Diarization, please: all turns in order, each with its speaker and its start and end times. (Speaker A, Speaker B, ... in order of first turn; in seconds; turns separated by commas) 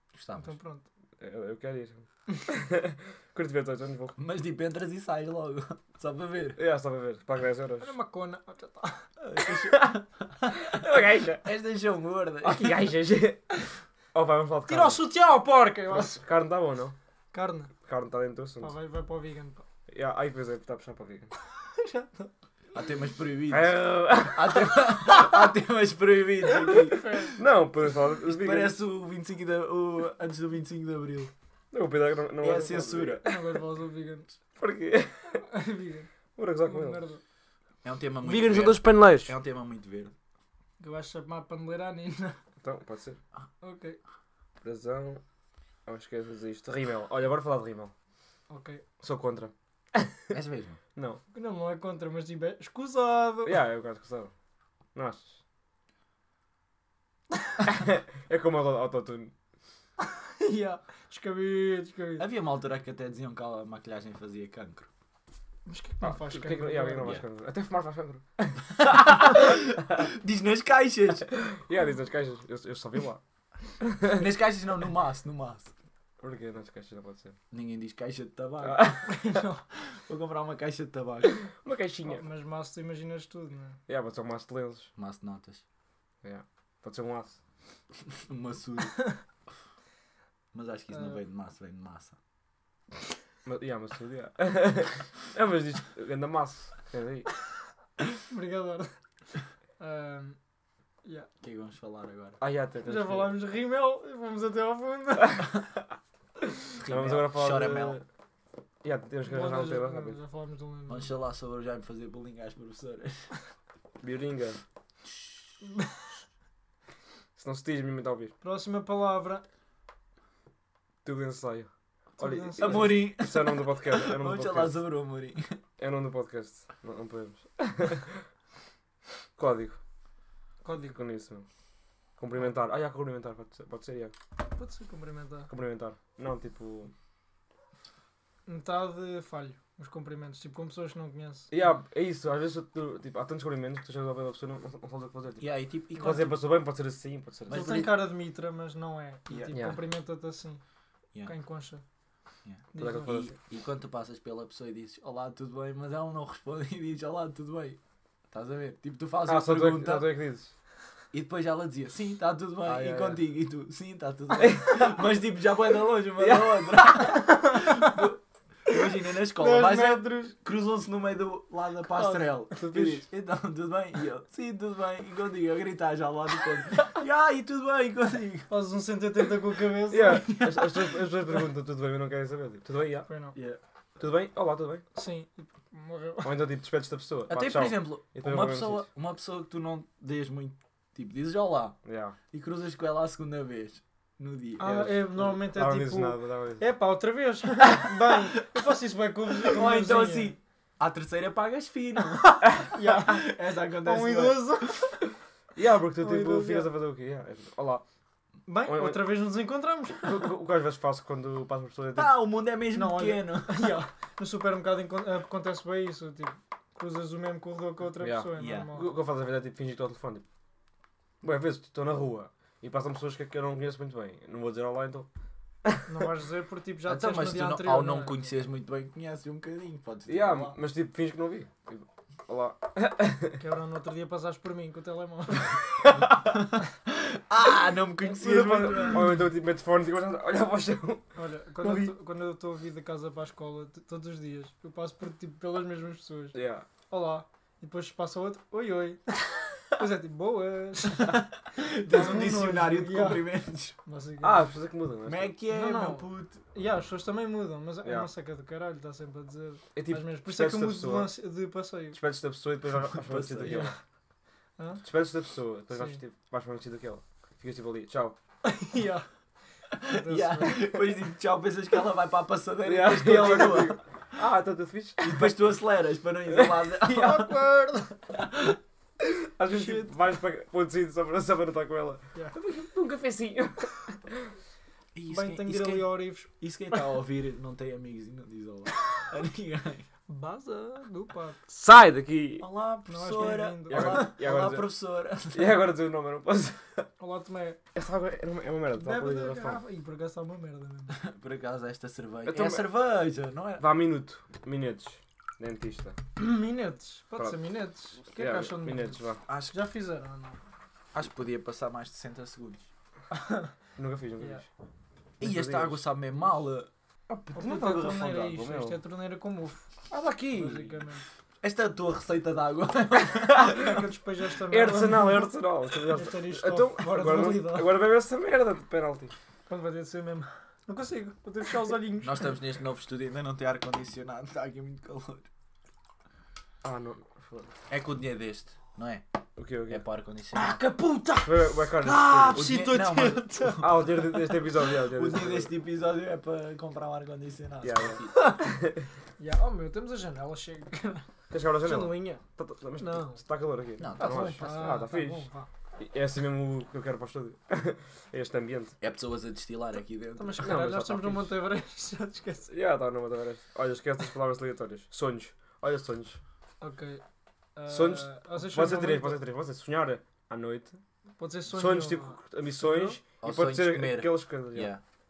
Speaker A: 0.1-0.6, Speaker B: 0.3-0.8, Speaker C: 1.2-4.2, Speaker A: 4.2-6.6, Speaker C: 6.5-7.9, Speaker B: 7.8-9.1, Speaker A: 9.2-10.8, Speaker C: 9.7-10.0, Speaker C: 10.6-11.5, Speaker A: 11.4-12.9, Speaker C: 12.4-13.4, Speaker C: 14.1-15.0, Speaker B: 14.7-16.2, Speaker C: 15.9-16.9, Speaker B: 17.3-17.7, Speaker C: 17.8-18.7, Speaker B: 18.6-19.6, Speaker C: 19.9-21.3, Speaker B: 21.5-22.3, Speaker A: 22.7-27.3, Speaker C: 23.5-25.2, Speaker B: 26.6-27.4, Speaker C: 27.1-28.8, Speaker A: 28.2-31.3, Speaker C: 31.7-33.2, Speaker A: 32.4-33.3, Speaker B: 33.2-34.4, Speaker C: 34.5-35.4, Speaker B: 35.4-36.1, Speaker C: 36.4-37.0, Speaker B: 36.7-37.2, Speaker A: 37.8-40.1, Speaker C: 38.2-39.3, Speaker B: 40.8-42.4, Speaker C: 42.6-43.2, Speaker B: 43.6-44.0, Speaker C: 44.6-45.2, Speaker C: 45.9-47.9, Speaker B: 48.5-48.8, Speaker C: 49.0-50.2, Speaker A: 50.3-50.8, Speaker C: 51.0-51.2, Speaker B: 51.3-53.6, Speaker C: 53.5-54.3, Speaker C: 54.9-55.4, Speaker C: 57.6-59.3, Speaker B: 60.0-62.2, Speaker A: 62.2-64.9, Speaker B: 65.7-67.1, Speaker C: 66.0-70.1, Speaker A: 68.8-71.4, Speaker C: 71.3-73.2, Speaker C: 73.8-74.2, Speaker A: 74.1-75.7, Speaker C: 76.2-77.3, Speaker A: 77.5-78.9, Speaker C: 78.6-79.4, Speaker B: 79.0-79.6, Speaker A: 79.8-81.4, Speaker C: 81.5-82.2, Speaker B: 82.0-83.8, Speaker C: 83.9-84.9, Speaker A: 85.0-85.6, Speaker C: 86.2-87.4, Speaker A: 88.3-89.1, Speaker A: 90.5-92.2, Speaker B: 90.9-91.2, Speaker C: 93.4-97.3, Speaker B: 98.3-98.9, Speaker B: 99.8-100.4, Speaker B: 101.0-101.3, Speaker A: 101.4-102.4, Speaker C: 102.4-103.3, Speaker B: 102.8-105.5, Speaker A: 106.8-108.0, Speaker C: 106.8-108.0, Speaker C: 108.8-110.2, Speaker B: 109.3-111.1, Speaker A: 110.9-113.3, Speaker C: 114.0-114.6, Speaker C: 117.3-118.3, Speaker B: 118.4-119.4, Speaker C: 121.0-124.8, Speaker B: 122.2-123.0, Speaker A: 122.6-125.6, Speaker C: 125.8-128.2, Speaker C: 129.3-129.8, Speaker B: 130.6-131.0, Speaker C: 130.8-131.5, Speaker C: 132.2-134.1, Speaker B: 134.5-135.5, Speaker C: 135.5-136.9, Speaker B: 138.4-141.5, Speaker C: 141.5-147.8, Speaker A: 145.4-146.4, Speaker A: 147.5-148.1, Speaker B: 147.5-150.6, Speaker C: 149.3-149.8, Speaker B: 151.2-151.8, Speaker A: 152.4-157.8, Speaker B: 152.7-153.3, Speaker C: 152.8-153.3, Speaker A: 158.3-160.2, Speaker C: 159.2-160.5, Speaker A: 161.1-178.5, Speaker C: 162.6-163.2, Speaker C: 164.3-165.0, Speaker C: 166.2-167.1, Speaker B: 167.0-168.1, Speaker B: 168.7-170.3, Speaker B: 171.9-172.8, Speaker C: 172.6-173.0, Speaker B: 178.5-181.0, Speaker C: 179.9-183.1, Speaker B: 183.1-183.3, Speaker A: 183.3-183.6, Speaker C: 184.0-184.8, Speaker B: 184.9-186.3, Speaker C: 186.2-188.8, Speaker A: 187.3-191.8, Speaker C: 191.8-192.2, Speaker A: 192.3-194.8, Speaker B: 194.6-200.3, Speaker C: 194.6-196.6, Speaker A: 199.4-204.9, Speaker B: 202.2-205.0, Speaker C: 205.6-207.8, Speaker B: 206.0-206.7, Speaker B: 208.5-210.3, Speaker C: 208.7-209.1, Speaker C: 210.0-212.1, Speaker A: 211.9-213.8, Speaker B: 212.7-218.9, Speaker C: 218.0-220.2, Speaker A: 218.3-218.7, Speaker C: 221.2-225.1, Speaker B: 225.8-228.3, Speaker A: 226.8-230.6, Speaker C: 230.1-233.4, Speaker B: 233.4-235.6, Speaker C: 235.8-236.3, Speaker A: 236.2-239.2, Speaker C: 238.0-241.9, Speaker B: 241.2-246.4, Speaker C: 246.3-246.7, Speaker B: 246.9-251.3, Speaker A: 251.0-253.8, Speaker B: 251.8-253.3, Speaker B: 253.8-254.5, Speaker C: 254.2-255.3, Speaker A: 255.1-256.4, Speaker B: 255.5-262.0, Speaker C: 259.7-261.1, Speaker C: 261.9-263.8, Speaker A: 262.9-263.7, Speaker B: 263.4-263.7, Speaker B: 264.6-264.8, Speaker C: 264.8-268.2, Speaker B: 265.7-266.0, Speaker B: 268.4-269.1, Speaker A: 269.8-273.8, Speaker B: 269.8-270.8, Speaker C: 272.6-275.5, Speaker A: 275.0-277.3, Speaker C: 276.3-277.3, Speaker B: 276.9-278.0, Speaker C: 279.0-284.3, Speaker B: 279.5-279.9, Speaker A: 284.9-289.9, Speaker B: 285.1-286.3, Speaker B: 290.1-291.4, Speaker C: 291.5-292.4, Speaker A: 292.4-295.6, Speaker B: 292.9-294.1, Speaker C: 293.7-294.7, Speaker C: 295.3-296.9, Speaker B: 297.0-297.6, Speaker C: 297.7-299.6, Speaker B: 298.8-301.0, Speaker A: 300.9-303.6, Speaker C: 302.3-302.6, Speaker C: 303.6-306.0, Speaker B: 306.1-310.4, Speaker C: 308.1-309.2, Speaker A: 309.3-309.6, Speaker A: 310.9-312.7, Speaker B: 313.1-313.5, Speaker C: 313.8-314.5, Speaker C: 315.2-315.8, Speaker A: 315.2-316.7, Speaker C: 317.1-318.8, Speaker B: 317.3-319.7, Speaker C: 319.9-320.8, Speaker B: 320.3-321.0, Speaker A: 321.4-323.8, Speaker B: 323.3-325.3, Speaker C: 324.5-329.1, Speaker B: 325.9-327.7, Speaker B: 329.5-332.3, Speaker A: 332.0-335.3, Speaker C: 336.6-337.6, Speaker A: 337.7-339.0, Speaker C: 339.4-339.8, Speaker A: 339.7-340.6, Speaker B: 340.3-344.1, Speaker C: 341.2-342.5, Speaker A: 342.1-343.8, Speaker C: 343.6-345.5, Speaker A: 344.7-348.1, Speaker C: 347.6-348.9, Speaker B: 348.1-348.4, Speaker B: 349.2-351.1, Speaker C: 351.3-358.8, Speaker B: 351.6-352.2, Speaker B: 352.8-353.2, Speaker A: 353.8-354.8, Speaker B: 354.0-355.5, Speaker A: 358.8-360.5, Speaker B: 360.2-362.5, Speaker C: 360.4-361.4, Speaker C: 362.5-366.2, Speaker B: 366.6-367.0, Speaker B: 367.6-369.2, Speaker C: 367.7-370.8, Speaker B: 371.2-373.0, Speaker C: 371.5-374.7, Speaker A: 373.2-374.8